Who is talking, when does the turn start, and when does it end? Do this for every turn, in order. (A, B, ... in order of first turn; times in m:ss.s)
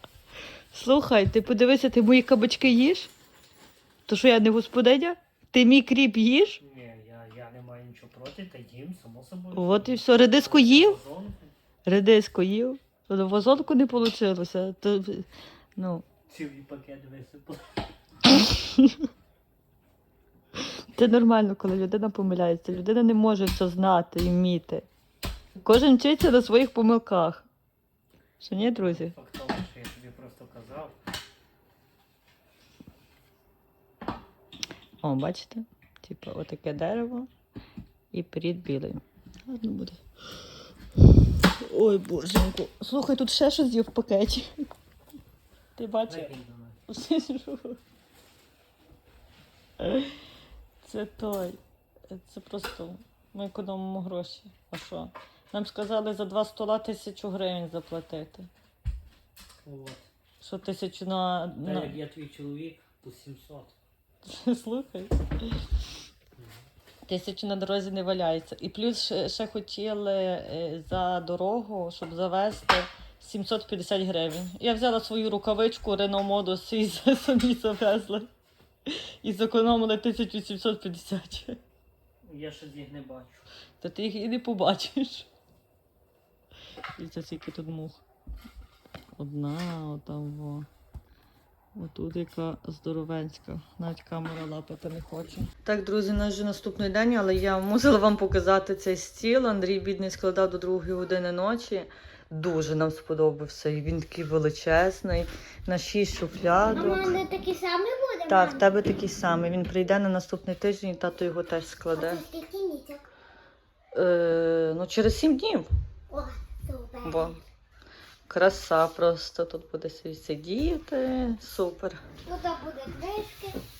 0:00.7-0:03.1 A
0:04.1-0:06.6 A
0:06.6-0:11.5 B
0:09.5-0:11.0 A
0:11.8-0:16.0 A
0:16.3-0:17.6 B
0:18.3-0:19.0 A
0:20.9-0:24.9 A
0:25.6-0:27.5 A
0:28.4-0:29.1 A
0:28.8-0:30.9 B
0:35.0-0:37.3 A
0:38.1-0:40.0 A
0:41.2-0:44.6 A
0:45.8-0:46.3 A
0:46.1-0:46.8 B
0:46.9-0:47.8 A
0:49.8-0:50.2 A
0:50.8-0:58.5 A
0:59.6-1:00.1 B
1:00.4-1:02.0 A
1:01.6-1:03.7 B
1:04.2-1:05.6 A
1:06.4-1:06.6 B
1:07.0-1:18.3 A
1:18.9-1:21.6 A
1:22.2-1:23.5 B
1:23.8-1:25.3 A
1:27.0-1:28.0 A
1:29.2-1:30.7 A
1:31.7-1:47.2 A
1:46.7-1:48.6 C
1:48.3-1:52.2 A
1:51.9-1:53.1 C
1:53.9-1:55.7 A
1:56.1-1:57.3 C
1:57.0-1:57.4 A
1:58.3-2:02.0 A
2:02.2-2:03.6 C